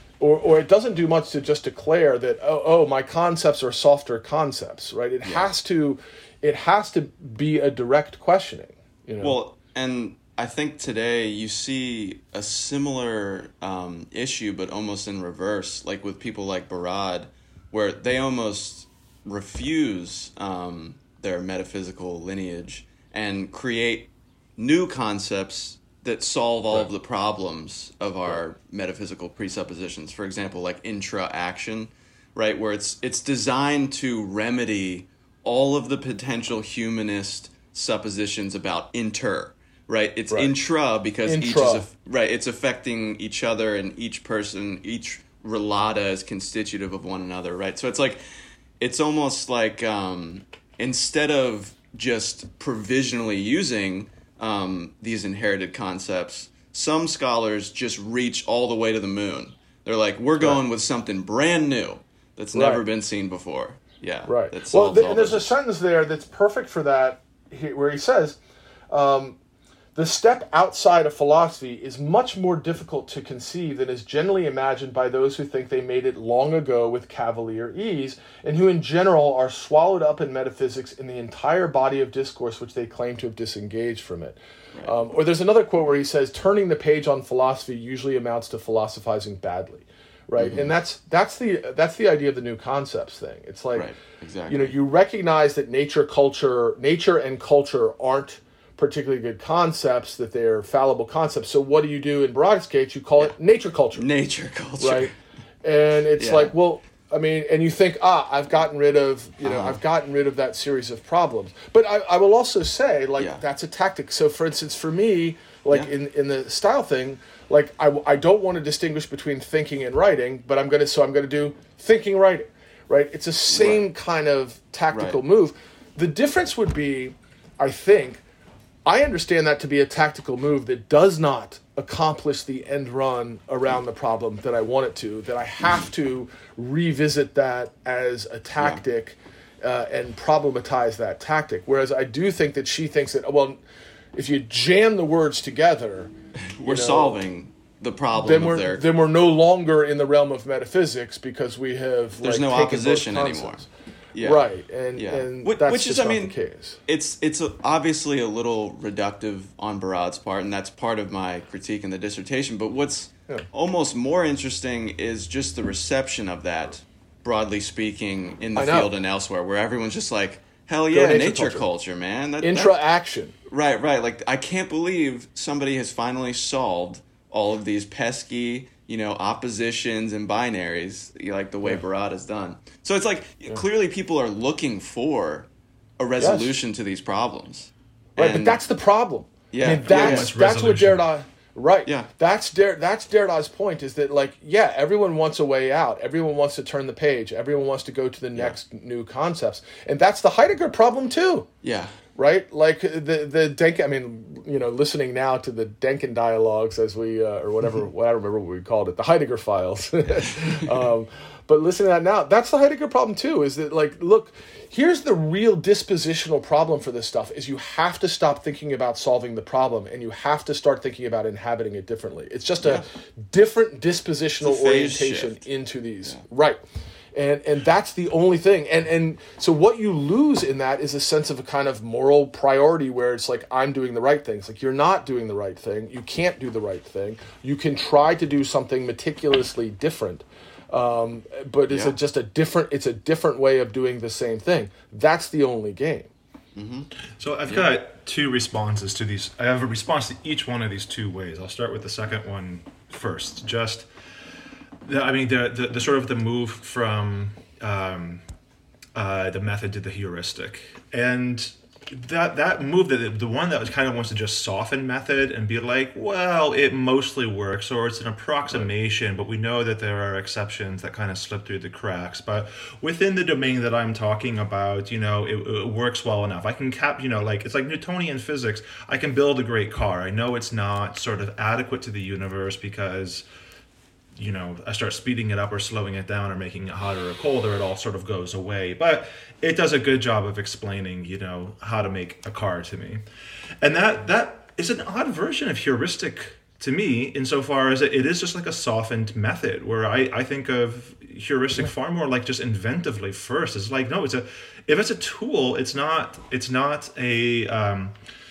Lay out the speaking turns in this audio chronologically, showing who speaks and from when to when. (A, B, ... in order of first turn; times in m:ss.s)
0:00.2-0:09.4 A
0:05.2-0:05.5 B
0:09.2-0:48.2 B
0:41.3-0:41.9 A
0:48.8-1:05.5 B
1:02.5-1:02.8 A
1:04.3-1:08.4 A
1:08.9-1:09.4 A
1:10.0-1:33.9 A
1:30.4-1:30.7 B
1:33.7-1:34.8 B
1:34.5-1:44.0 A
1:44.0-1:45.2 B
1:44.8-1:45.1 A
1:45.6-2:08.2 A
1:46.2-1:46.5 B
1:49.4-1:49.8 B
2:03.5-2:03.8 B
2:04.9-2:05.2 B
2:08.8-2:23.6 A
2:24.2-2:26.1 A
2:26.6-2:28.8 B
2:26.6-2:27.2 A
2:28.2-2:33.7 A
2:32.2-2:33.6 B
2:34.2-2:36.4 B
2:34.2-2:36.8 A
2:36.9-2:52.8 B
2:48.6-2:48.9 A
2:50.9-2:51.7 A
2:52.4-2:53.3 A
2:53.5-3:05.5 B
3:06.0-3:08.6 B
3:06.2-3:06.5 A
3:08.2-3:21.5 A
3:09.5-3:10.3 B
3:09.8-3:11.1 C
3:21.6-3:22.0 B
3:22.2-3:46.6 A
3:44.4-3:45.4 B
3:47.1-4:06.1 A
4:06.6-4:06.9 B
4:07.2-4:13.9 C
4:14.8-4:18.2 C
4:19.0-4:43.2 C
4:44.2-4:53.0 C
4:53.6-5:08.0 C